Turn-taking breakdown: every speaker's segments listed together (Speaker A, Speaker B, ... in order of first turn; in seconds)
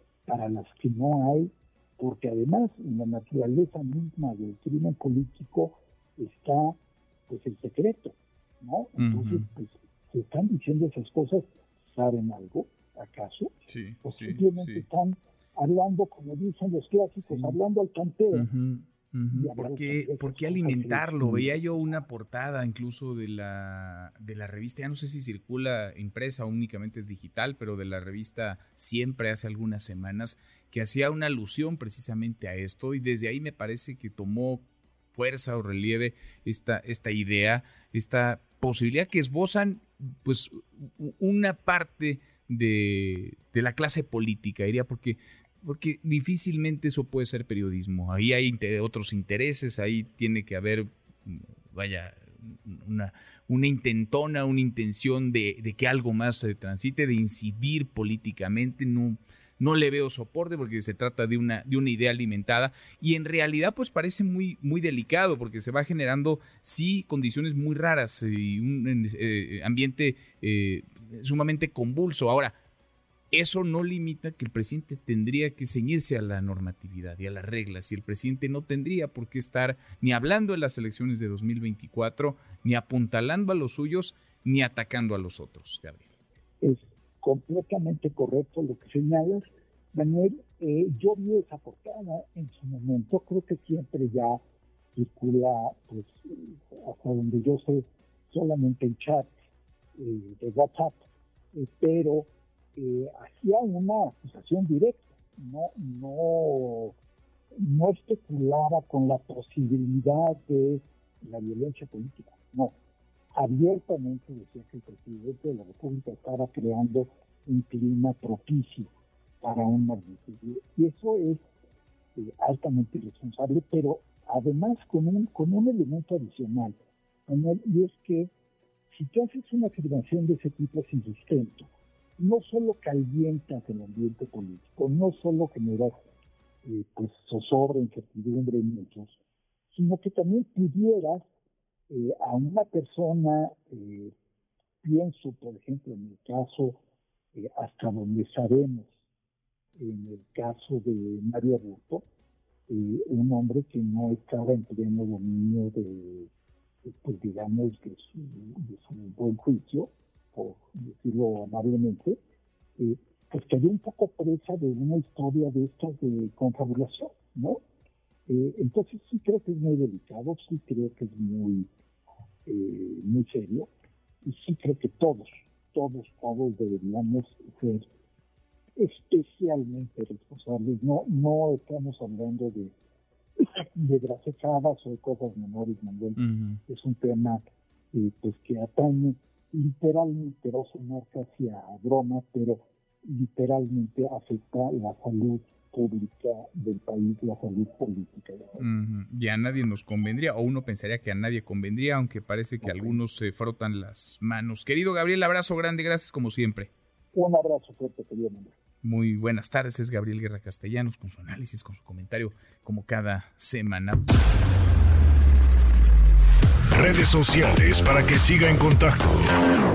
Speaker A: 0.2-13.5, 14.0-18.5, 19.3-21.6, 86.6-94.4, 94.9-99.3, 100.0-101.0, 101.5-107.0, 107.6-112.7, 113.3-121.4, 122.1-128.3, 128.9-135.9, 136.6-139.2, 139.7-141.2, 141.9-144.1, 144.8-146.8, 147.3-148.9, 149.8-152.1, 152.7-156.3, 156.8-162.2, 162.8-167.6, 168.3-171.7, 172.4-173.7, 174.2-177.8, 178.8-182.7, 183.4-198.7, 202.6-203.0, 207.1-208.5
Speaker B: 9.0-9.5, 13.7-14.8, 17.2-17.6, 18.3-72.5, 73.3-86.0, 186.2-186.6, 198.6-206.7, 208.8-214.1
Speaker C: 216.7-219.3